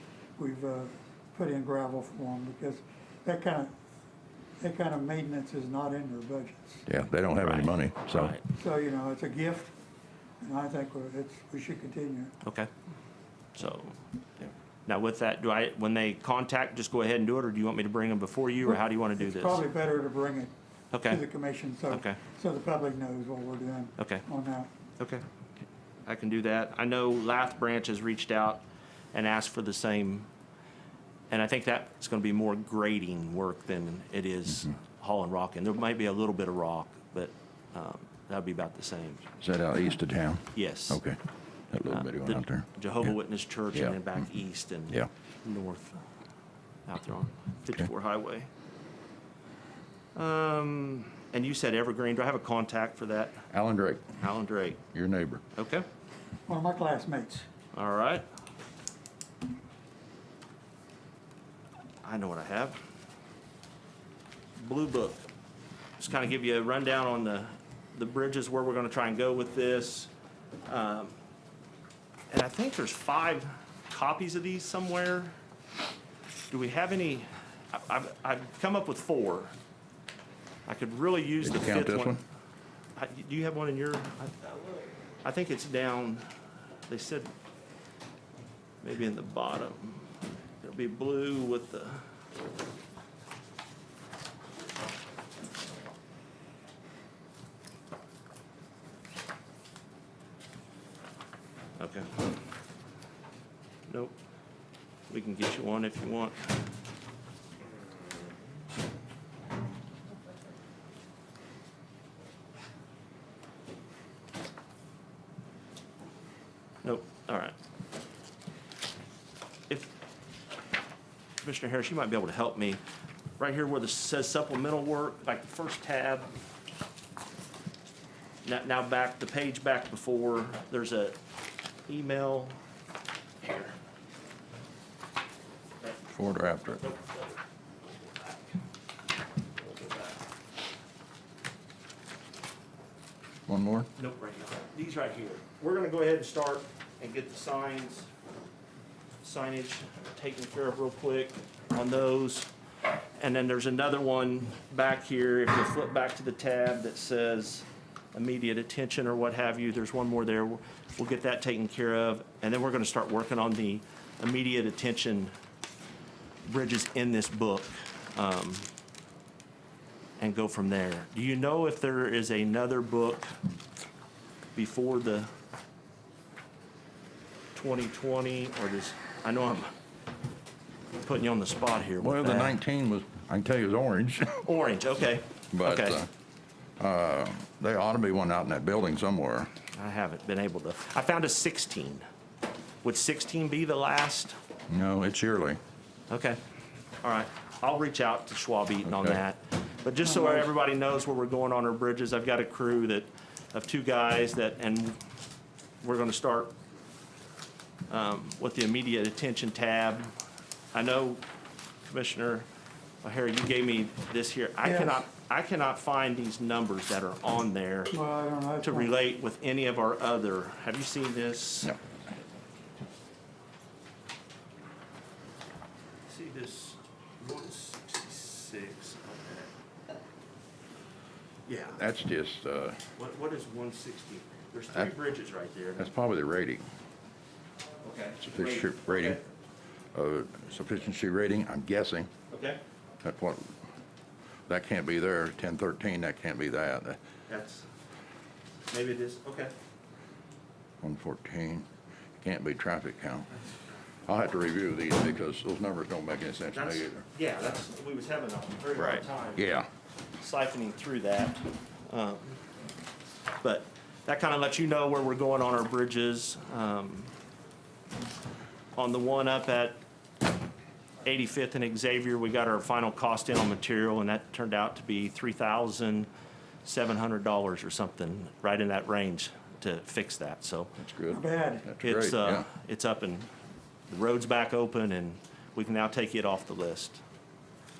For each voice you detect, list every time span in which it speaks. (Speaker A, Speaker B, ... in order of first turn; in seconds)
Speaker A: 0.4-3.7, 4.6-6.8, 8.5-9.7, 10.4-12.3, 18.6-20.5, 21.0-24.7, 56.5-57.5, 200.0-200.5, 214.6-215.0, 217.9-218.9, 281.1-281.7
Speaker B: 6.8-8.3, 39.4-41.2, 41.7-43.1, 53.5-54.2, 54.9-55.4, 81.4-82.2, 136.1-136.8, 143.5-143.9, 182.0-184.4, 185.5-186.1, 186.8-189.5, 194.7-195.6, 198.8-199.2, 231.7-232.8, 235.8-236.6, 238.2-239.2, 239.9-242.1, 243.0-243.6, 244.5-247.0, 250.8-251.7, 252.2-253.3, 254.1-257.0, 258.8-259.7, 280.8-282.5
Speaker C: 7.4-8.4, 12.4-12.7, 13.5-14.0, 14.9-19.6, 20.9-21.2, 21.9-22.2, 24.0-24.2, 26.1-30.3, 31.3-39.2, 40.5-41.0, 41.9-46.0, 46.9-48.5, 50.1-53.4, 54.2-54.8, 55.5-55.9, 57.7-58.2, 62.0-62.8, 64.6-65.3, 66.0-70.1, 70.7-71.2, 72.3-75.3, 76.5-79.5, 80.7-82.2, 83.0-86.2, 86.9-87.3, 88.8-92.0, 101.8-102.3, 103.9-104.1, 105.1-106.5, 116.8-117.5, 121.4-122.8, 123.4-126.3, 128.4-131.2, 131.9-132.6, 133.4-133.7, 135.8-138.5, 139.6-140.2, 144.0-148.1, 149.2-152.5, 153.2-165.3, 166.4-168.7, 170.2-173.3, 174.5-175.3, 177.5-179.7, 181.0-182.6, 184.4-186.0, 189.7-192.0, 192.8-194.4, 196.1-196.4, 197.0-205.0, 205.8-206.5, 207.9-210.1, 210.7-211.2, 211.9-212.4, 213.0-217.9, 218.6-221.7, 226.1-229.5, 231.5-231.8, 233.0-235.9, 237.8-239.2, 242.3-242.6, 247.3-247.7, 248.7-249.5, 256.5-259.5, 260.2-262.4, 263.4-267.1, 268.8-269.8, 271.0-276.1, 276.6-280.7, 281.8-283.3, 283.9-287.0